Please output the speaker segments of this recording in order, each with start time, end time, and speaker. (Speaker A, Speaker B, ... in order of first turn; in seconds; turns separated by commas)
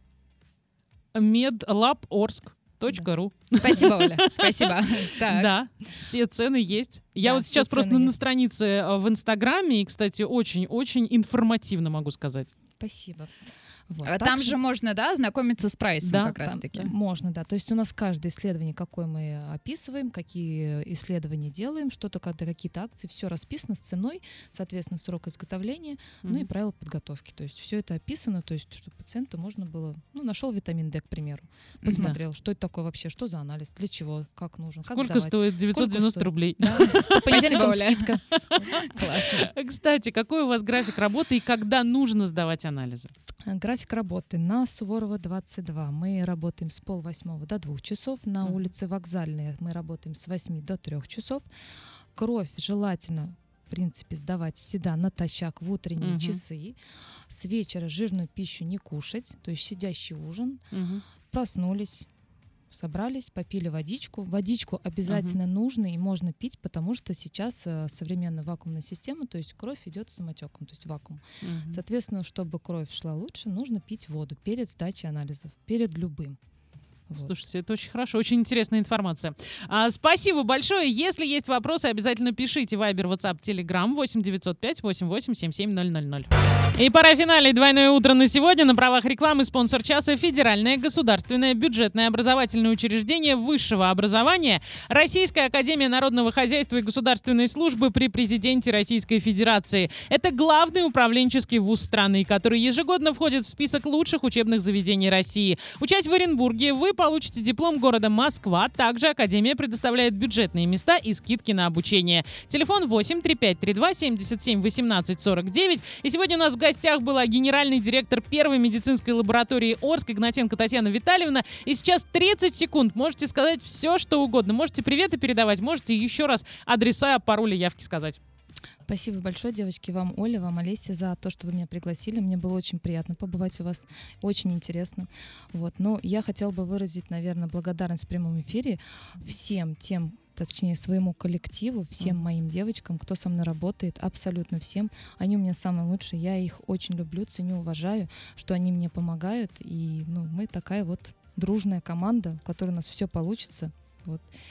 Speaker A: 1.1-4.7, Speaker B: 3.5-5.5, Speaker A: 5.3-12.5, Speaker C: 7.3-8.2, Speaker C: 12.8-13.3, Speaker C: 13.9-14.6, Speaker B: 14.0-16.9, Speaker A: 16.0-16.3, Speaker C: 16.3-38.6, Speaker B: 31.8-32.1, Speaker A: 31.9-32.2, Speaker A: 34.8-37.8, Speaker B: 37.1-39.5, Speaker A: 38.4-43.1, Speaker C: 43.5-51.5, Speaker A: 48.4-48.7, Speaker C: 52.1-56.8, Speaker A: 56.0-56.4, Speaker C: 57.3-60.6, Speaker A: 60.7-61.0, Speaker C: 61.3-62.1, Speaker C: 62.7-76.4, Speaker A: 65.0-65.4, Speaker A: 71.4-71.8, Speaker C: 77.1-77.3, Speaker A: 77.2-128.2, Speaker C: 128.9-154.2